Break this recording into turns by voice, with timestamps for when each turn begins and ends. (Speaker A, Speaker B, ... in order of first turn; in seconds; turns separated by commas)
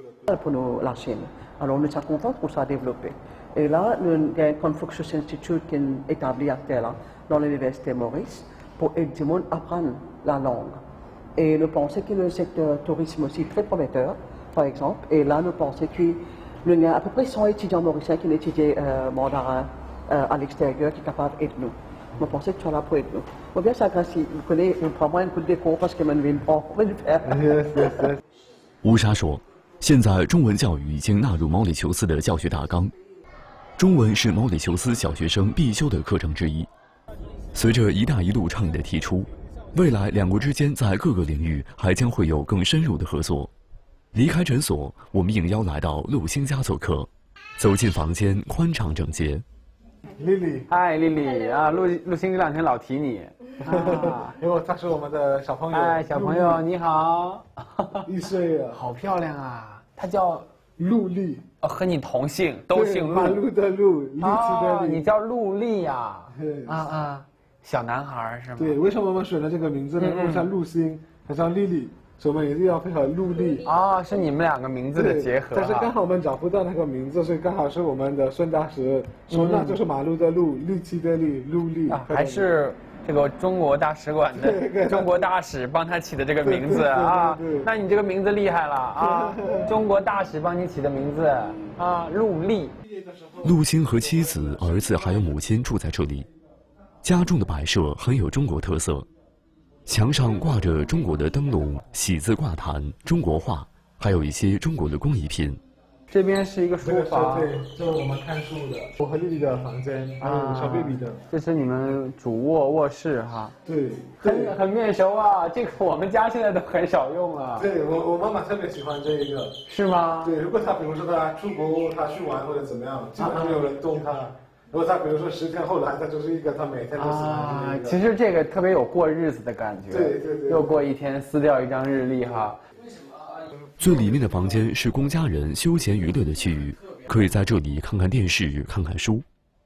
Speaker A: 0.3-10.8, Speaker A: 11.4-28.1, Speaker B: 27.2-28.2, Speaker C: 28.8-32.9, Speaker C: 33.8-36.7, Speaker C: 37.5-43.5, Speaker C: 44.1-49.4, Speaker B: 50.1-50.7, Speaker D: 50.7-54.3, Speaker B: 53.6-56.6, Speaker D: 55.7-58.0, Speaker B: 58.0-58.8, Speaker D: 58.7-60.5, Speaker B: 60.8-61.5, Speaker D: 61.6-63.4, Speaker B: 62.7-65.1, Speaker D: 64.2-68.8, Speaker B: 66.3-66.8, Speaker B: 68.6-73.6, Speaker D: 70.0-70.5, Speaker D: 73.6-75.9, Speaker B: 74.9-82.5, Speaker D: 79.3-79.8, Speaker D: 81.9-92.7, Speaker B: 84.3-85.3, Speaker B: 86.4-87.7, Speaker B: 89.0-89.7, Speaker C: 93.4-96.3, Speaker C: 97.0-99.1, Speaker C: 99.9-105.6, Speaker D: 106.1-107.5, Speaker B: 106.8-111.2, Speaker D: 110.2-113.5, Speaker B: 113.6-114.6, Speaker D: 114.2-117.7, Speaker B: 117.6-119.6, Speaker D: 119.7-120.3, Speaker B: 120.2-128.0, Speaker D: 123.2-123.6, Speaker D: 127.0-132.6, Speaker B: 129.9-130.8, Speaker C: 133.8-139.2